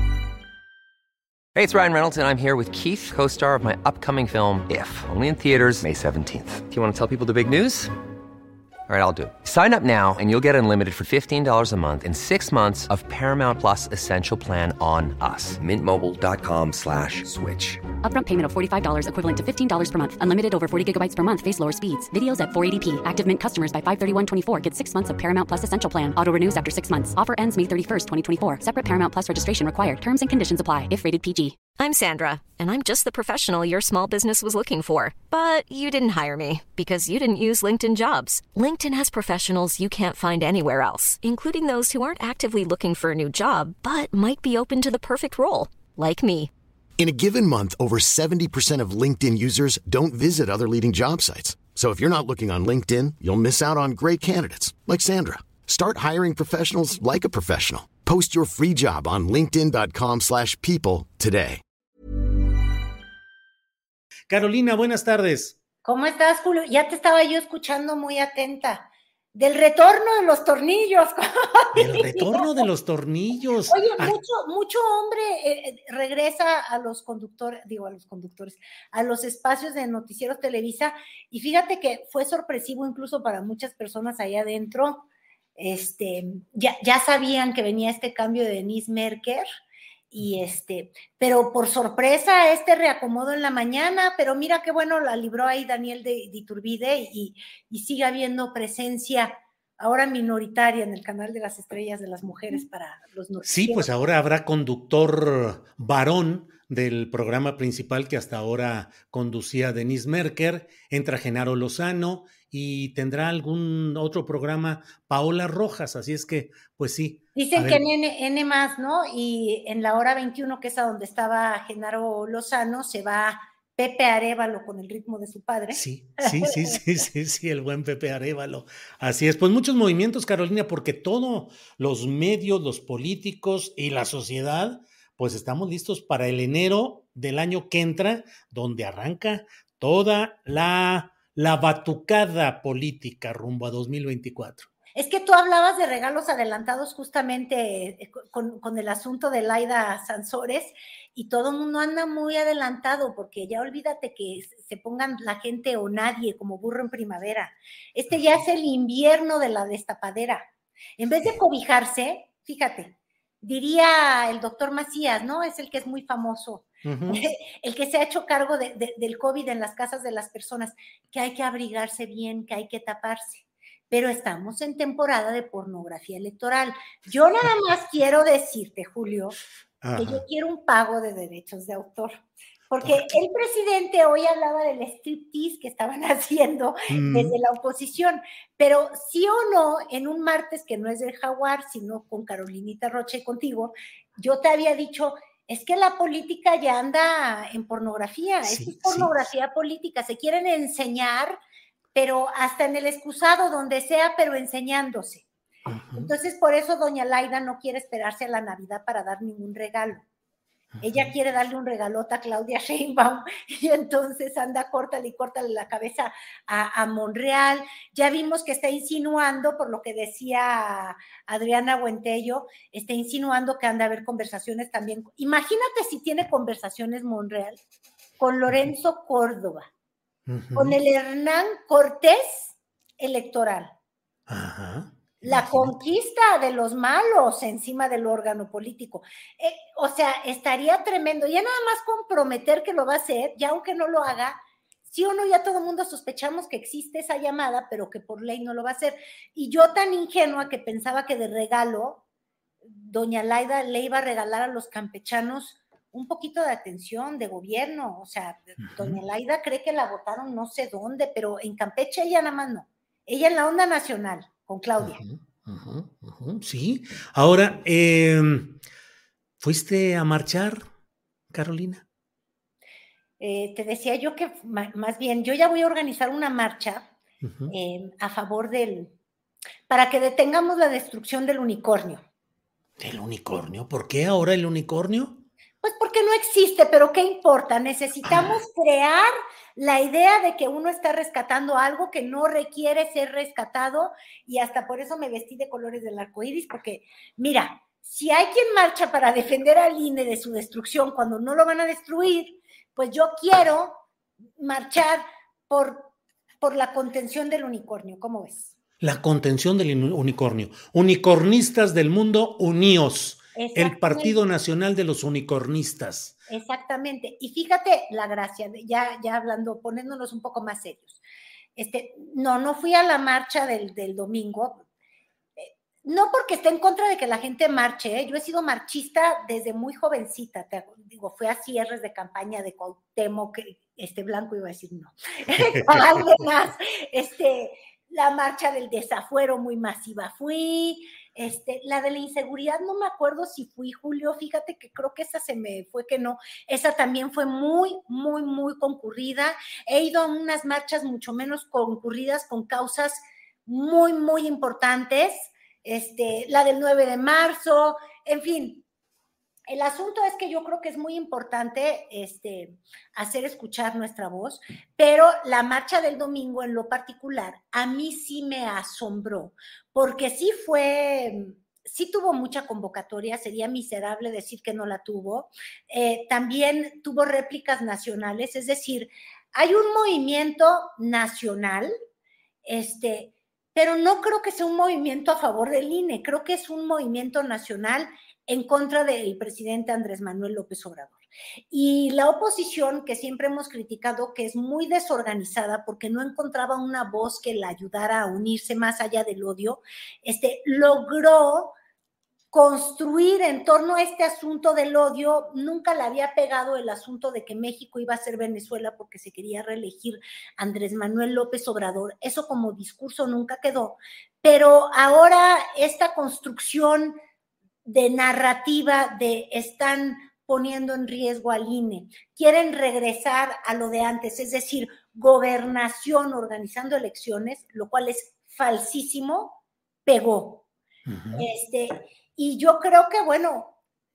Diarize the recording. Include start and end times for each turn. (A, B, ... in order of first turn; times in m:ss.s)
0:01.5-0:07.9 A
0:08.9-0:17.8 A
0:18.0-0:31.6 B
0:31.8-0:46.5 C
0:47.0-1:01.6 D
1:04.3-1:05.6 E
1:05.8-1:12.5 F
1:11.7-1:14.2 E
1:13.7-1:25.0 F
1:25.6-1:29.4 F
1:30.1-1:43.9 F
1:43.4-1:57.8 E
1:57.4-2:06.6 F
2:05.7-2:24.7 E
2:24.9-2:40.5 F
2:41.0-2:59.3 F
2:46.8-2:47.2 E
2:59.8-3:00.2 E
2:59.9-3:21.4 F
3:02.8-3:03.1 E
3:06.9-3:07.3 E
3:18.4-3:19.1 E
3:21.9-3:25.2 F
3:25.7-3:26.1 E
3:26.0-3:30.0 F
3:30.8-3:31.1 E
3:30.8-3:47.6 F
3:48.2-3:49.7 F
3:50.3-3:50.8 E
3:50.5-3:53.7 F
3:54.3-3:55.7 E
3:55.2-4:12.0 F
4:12.6-4:25.0 F
4:18.6-4:19.0 E
4:24.8-4:28.6 E
4:29.4-4:30.6 E
4:31.3-4:31.8 E
4:33.2-4:36.9 F
4:37.2-4:37.5 E
4:37.5-4:38.9 F
4:39.7-4:42.0 F
4:42.8-4:45.2 E
4:45.6-5:03.8 F
5:04.4-5:08.5 F
5:08.8-5:16.2 E
5:13.4-5:14.2 F
5:16.3-5:21.0 F
5:21.6-5:24.6 F
5:25.4-5:58.6 F
5:35.4-5:36.0 E
5:59.5-6:21.7 F
6:22.4-6:31.0 F
6:31.5-6:41.5 F
6:42.3-6:57.0 F
6:57.7-7:10.4 F
7:10.9-7:11.3 E
7:11.1-7:13.5 F